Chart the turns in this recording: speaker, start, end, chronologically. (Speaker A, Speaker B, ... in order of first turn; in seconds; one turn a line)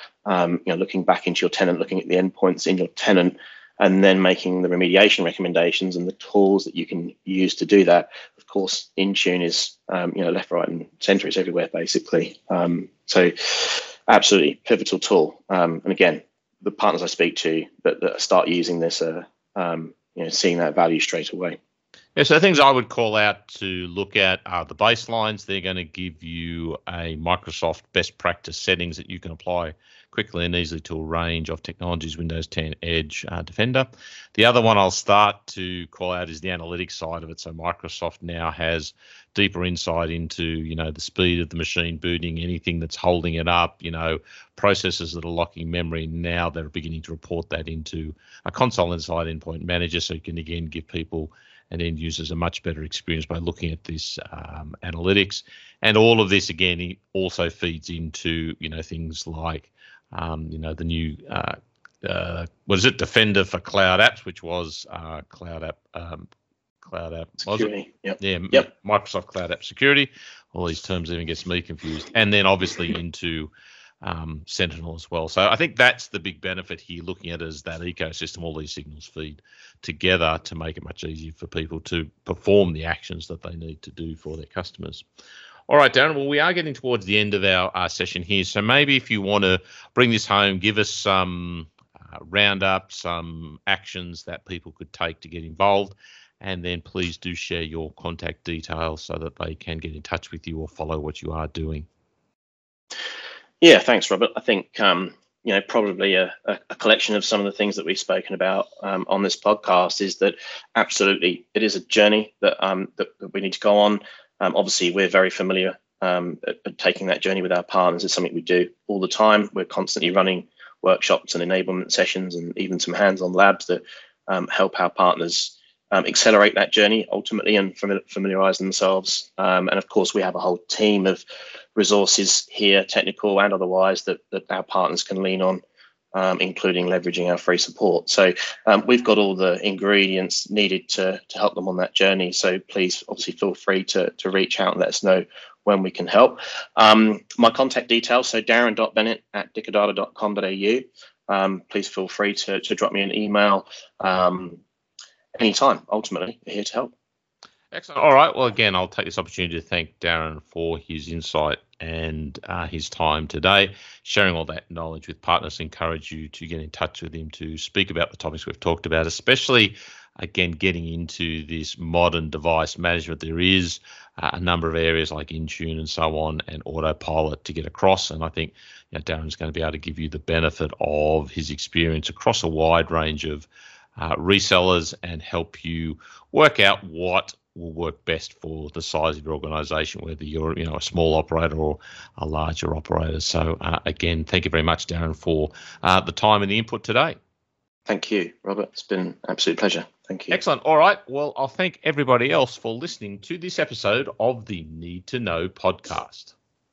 Speaker A: 0.2-21.6
Speaker B: 22.1-66.3
Speaker B: 66.8-73.5
Speaker A: 67.4-68.6
Speaker B: 74.0-85.0
Speaker B: 85.7-101.8
Speaker A: 103.6-131.2
Speaker A: 131.8-135.6
Speaker A: 136.1-154.6
Speaker A: 155.3-156.9
Speaker B: 157.7-183.5
Speaker B: 184.0-197.2
Speaker A: 197.9-200.4
Speaker B: 200.3-206.3